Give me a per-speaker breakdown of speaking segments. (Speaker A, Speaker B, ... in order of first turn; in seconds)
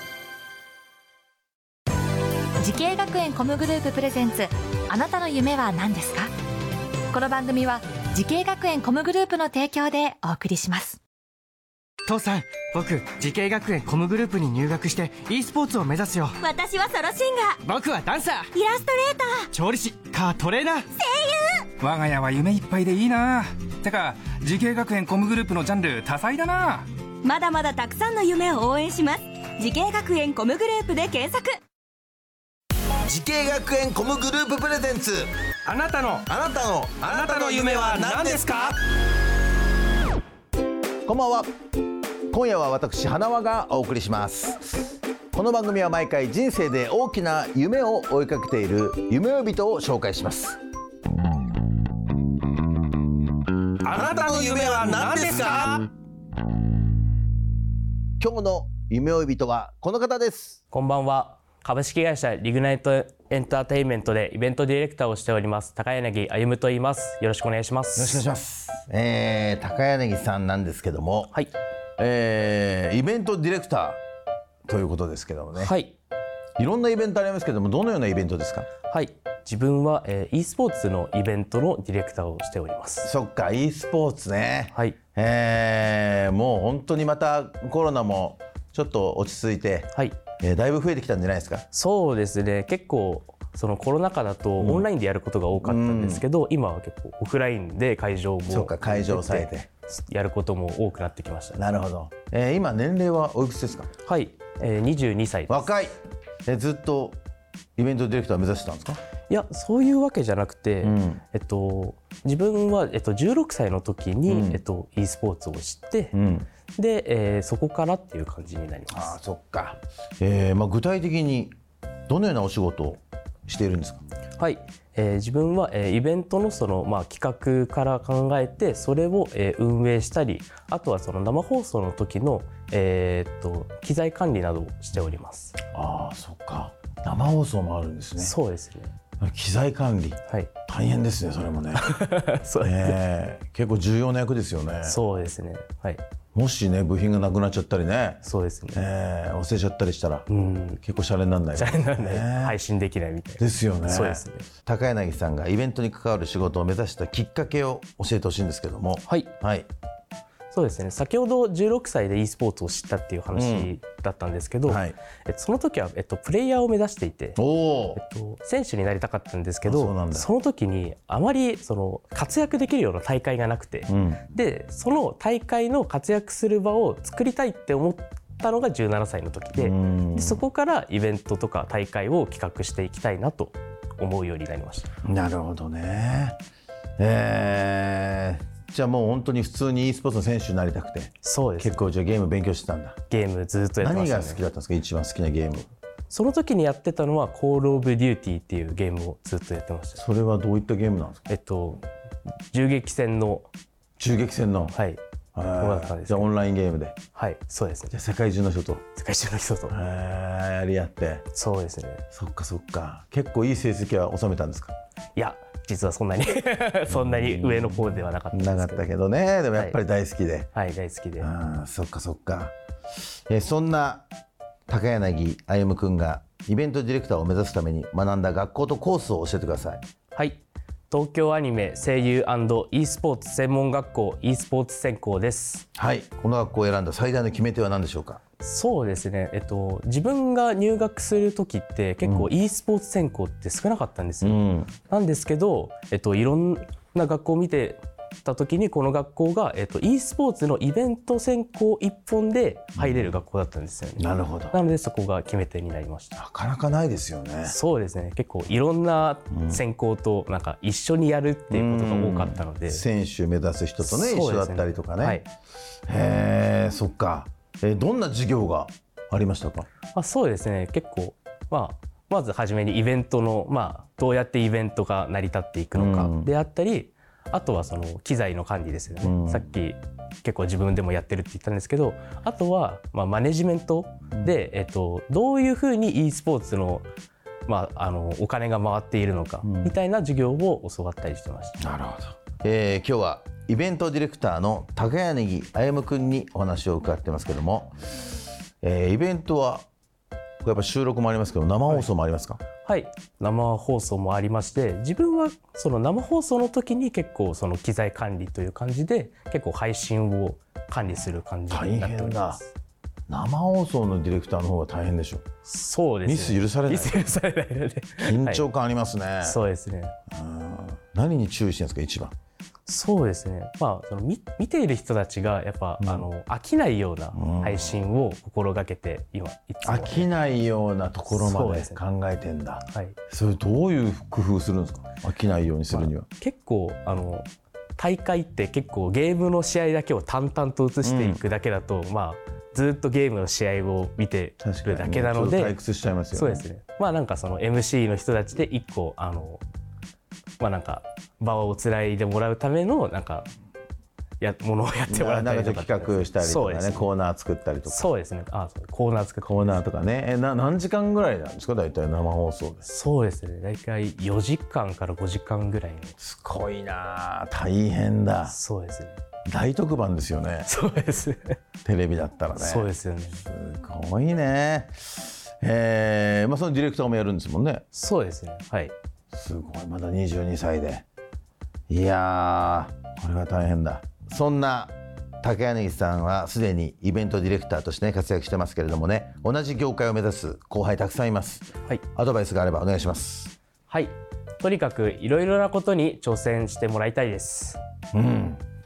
Speaker A: 2.6-6.3, 7.1-11.0
Speaker B: 12.1-16.4, 17.6-18.5, 19.5-20.9
Speaker C: 16.4-17.6, 18.5-19.5, 20.9-21.7, 27.2-31.6
Speaker D: 21.8-26.9, 37.1-37.7, 54.3-55.2
Speaker E: 33.0-35.3, 36.1-38.7, 41.0-41.5, 42.3-50.6, 53.8-55.9, 58.2-60.6, 68.0-71.3, 72.0-74.0, 74.7-75.7, 76.6-78.7, 83.0-91.6, 94.6-94.9, 95.6-96.2, 98.5-99.7, 101.5-103.9, 105.5-107.2, 107.8-109.0, 110.8-111.2, 114.3-114.6, 116.1-116.5, 118.9-121.5, 122.1-124.0, 135.7-138.3, 139.2-141.9, 142.6-145.0, 146.3-150.3, 150.8-152.6, 153.4-159.7, 163.3-163.7, 164.6-164.9, 167.3-168.0, 169.6-170.3, 173.9-174.2, 179.6-180.4, 185.0-186.4, 187.0-193.0, 193.8-195.7, 199.9-201.2, 204.0-204.8, 205.3-206.9, 207.9-208.8, 209.7-211.2, 212.1-214.7, 216.9-220.5, 221.2-222.5, 223.3-224.1, 224.7-229.8, 235.8-238.2, 242.0-242.3, 244.2-244.7, 252.8-253.2, 254.0-254.6, 256.1-257.6, 259.3-259.6, 261.5-265.2, 265.9-269.6, 275.7-276.3, 279.0-279.5, 289.4-289.7, 291.6-297.7, 298.6-299.6, 300.4-302.4, 311.5-312.4, 313.1-315.2, 316.0-317.1, 318.0-319.4, 320.1-322.1, 325.8-326.1, 327.1-327.8, 329.6-336.1, 340.8-341.2, 344.4-346.4, 354.9-357.9, 359.2-362.7, 366.0-368.3, 369.3-370.5, 371.6-372.7, 373.2-377.6, 379.1-380.8, 381.7-393.3, 397.9-398.4
Speaker F: 60.7-68.2, 75.6-76.0, 78.9-83.1, 84.7-85.0, 91.7-101.6, 104.0-105.6, 109.3-116.1, 116.8-119.2, 124.4-135.5, 138.2-138.9, 141.7-143.0, 144.8-146.0, 148.2-148.9, 150.3-150.8, 151.5-154.4, 159.0-159.3, 160.5-167.4, 167.9-184.9, 191.2-191.8, 193.1-194.4, 196.1-200.0, 201.3-201.8, 202.5-203.5, 204.7-205.0, 205.6-206.3, 207.1-207.9, 208.9-209.8, 211.3-212.0, 215.1-218.9, 220.5-221.3, 230.1-235.7, 238.4-256.2, 257.4-262.8, 263.8-265.2, 269.9-286.9, 287.5-291.6, 302.6-312.5, 315.5-318.4, 319.2-319.9, 322.6-330.1, 331.1-331.8, 332.7-332.9, 335.7-337.2, 337.8-345.6, 346.1-349.4, 350.4-353.3, 354.2-356.9, 357.7-359.6, 362.6-365.9, 368.3-369.0, 370.4-371.4, 372.4-373.2, 377.7-378.7, 393.7-397.6